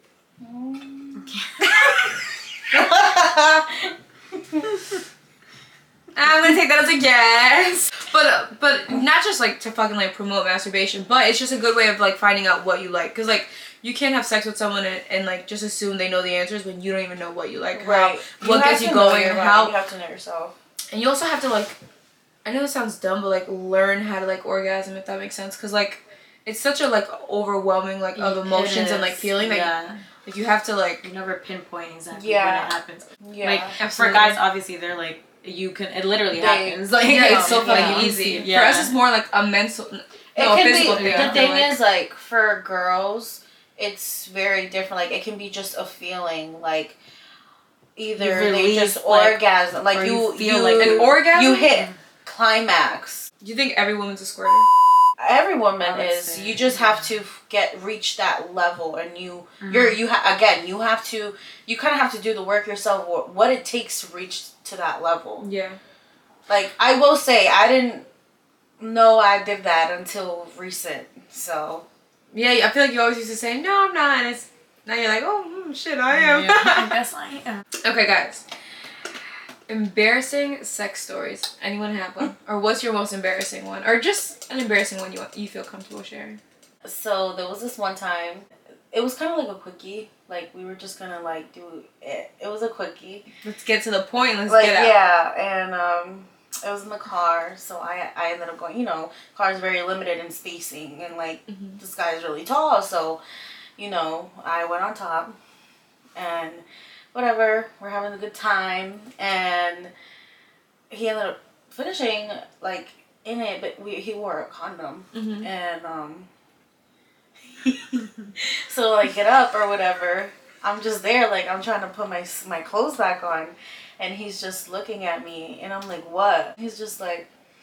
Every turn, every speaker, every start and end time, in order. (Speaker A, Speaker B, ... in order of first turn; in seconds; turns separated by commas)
Speaker A: 0.4-1.3, Speaker B: 1.1-2.1, Speaker C: 1.6-2.2, Speaker A: 2.7-4.7, Speaker C: 6.1-19.7, Speaker A: 17.7-20.5, Speaker C: 20.9-21.8, Speaker C: 22.4-29.7, Speaker B: 28.1-30.0, Speaker C: 30.2-31.1, Speaker B: 31.0-39.0, Speaker A: 32.1-33.8, Speaker C: 33.8-34.4, Speaker A: 36.3-38.1, Speaker C: 37.0-41.8, Speaker A: 40.3-47.0, Speaker B: 40.8-41.6, Speaker A: 48.0-53.2, Speaker B: 48.1-52.0, Speaker C: 50.8-51.7, Speaker C: 53.4-54.7, Speaker A: 55.2-65.5, Speaker B: 55.8-57.2, Speaker B: 59.6-60.0, Speaker C: 65.4-65.8, Speaker A: 66.5-68.0, Speaker A: 68.8-71.8, Speaker C: 72.3-76.9, Speaker B: 76.1-77.6, Speaker C: 77.8-78.4, Speaker C: 79.7-86.4, Speaker A: 86.8-93.3, Speaker C: 93.4-94.9, Speaker A: 94.5-103.2, Speaker C: 101.5-101.8, Speaker A: 103.8-105.3, Speaker A: 106.1-109.9, Speaker A: 110.9-116.3, Speaker C: 115.1-115.5, Speaker A: 117.5-127.3